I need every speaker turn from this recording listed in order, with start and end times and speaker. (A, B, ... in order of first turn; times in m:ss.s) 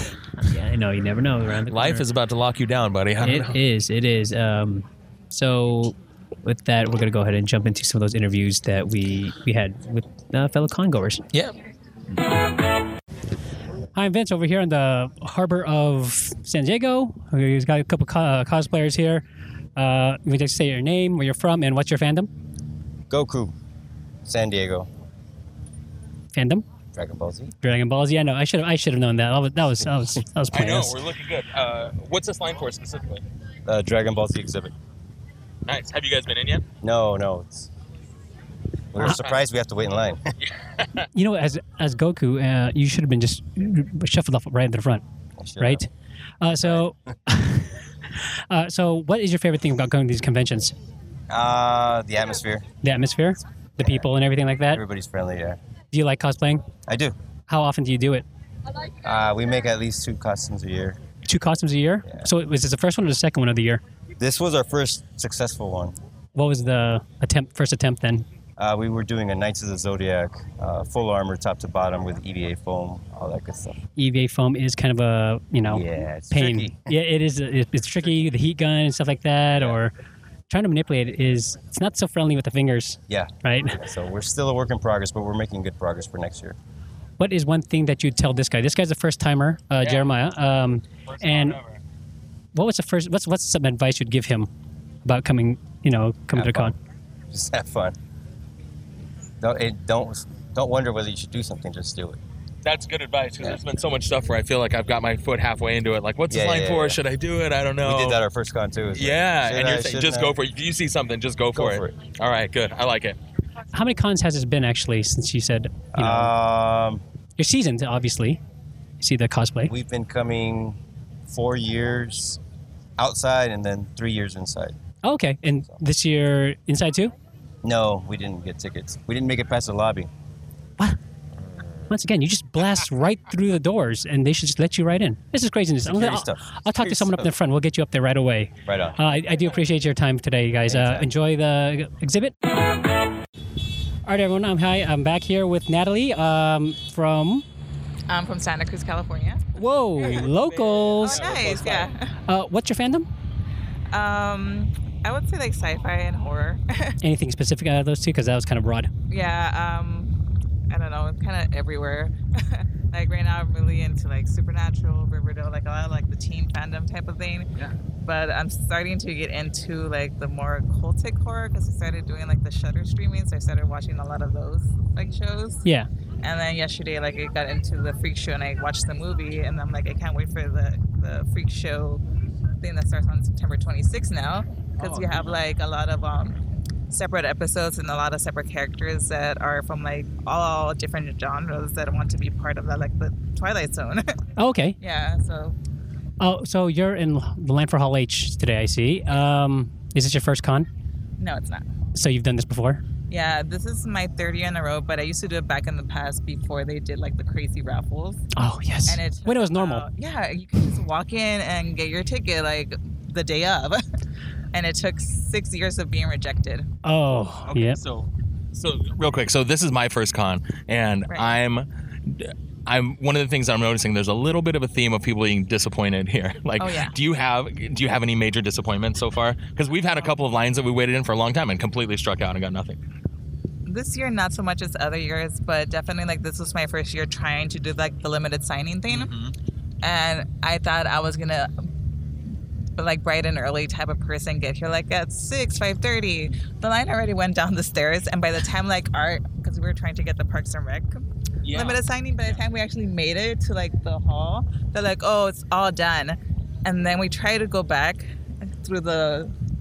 0:00.4-0:02.1 A
0:01.7-0:03.6 B
0:03.2-0:11.2 A
0:13.9-0:19.2 A
0:19.8-0:22.3 A
0:23.1-0:23.5 C
0:24.2-0:24.9 C
0:26.3-0:26.6 A
0:26.9-0:27.5 C
0:27.6-0:31.0 A
0:30.5-0:33.2 B
0:33.7-0:34.7 C
0:35.6-0:36.6 B
0:36.8-0:37.7 C
0:38.9-0:40.2 C
0:39.0-0:39.4 B
0:40.4-0:40.8 B
0:41.1-0:45.0 A
0:45.4-0:45.8 C
0:45.6-0:45.9 A
0:46.4-0:47.7 A
0:48.5-0:50.7 A
0:51.3-0:52.6 C
0:52.8-0:54.8 A
0:53.8-0:54.1 C
0:54.7-0:55.6 C
0:55.9-0:56.6 A
0:56.9-0:57.1 C
0:57.5-0:58.2 A
0:59.0-1:01.0 C
1:01.2-1:03.8 A
1:02.0-1:02.3 C
1:04.2-1:06.0 C
1:06.4-1:08.3 A
1:08.6-1:13.8 C
1:14.0-1:19.9 A
1:15.7-1:16.9 C
1:20.5-1:23.8 A
1:23.1-1:26.6 C
1:27.2-1:31.6 A
1:29.8-1:30.1 B
1:31.1-1:31.7 B
1:32.5-1:34.5 A
1:35.0-1:36.7 A
1:36.3-1:36.7 C
1:37.3-1:38.0 C
1:39.4-1:42.2 C
1:42.6-1:48.2 B
1:46.3-1:47.0 C
1:47.8-1:50.4 C
1:48.9-1:53.2 B
1:51.5-1:51.9 C
1:53.7-1:56.3 A
1:55.9-1:57.0 C
1:57.4-1:58.4 A
1:59.0-1:59.7 A
1:59.6-2:02.4 C
2:03.0-2:04.8 C
2:05.0-2:07.1 A
2:07.6-2:10.1 C
2:11.9-2:22.3 A
2:15.8-2:17.2 C
2:18.7-2:19.0 C
2:20.7-2:21.1 C
2:24.0-2:27.4 A
2:28.1-2:29.4 D
2:29.5-2:31.3 A
2:31.0-2:31.7 B
2:31.0-2:32.1 D
2:32.3-2:33.1 A
2:33.9-2:36.9 D
2:37.0-2:38.9 A
2:39.1-2:40.2 D
2:40.7-2:47.5 D
2:48.0-2:55.6 D
2:56.2-3:02.0 D
3:02.6-3:06.4 D
3:06.9-3:14.2 D
3:14.4-3:14.8 A
3:14.8-3:15.6 D
3:16.2-3:20.7 A
3:21.2-3:21.6 D
3:21.9-3:22.8 A
3:23.1-3:28.2 D
3:28.3-3:29.9 A
3:28.9-3:33.8 D
3:34.5-3:36.7 D
3:36.8-3:37.8 A
3:37.5-3:52.8 B
3:46.6-3:46.9 D
3:53.6-3:59.1 D
3:58.9-3:59.3 B
3:59.8-4:01.5 D
4:02.8-4:18.1 D
4:11.4-4:11.8 B
4:18.6-4:19.3 D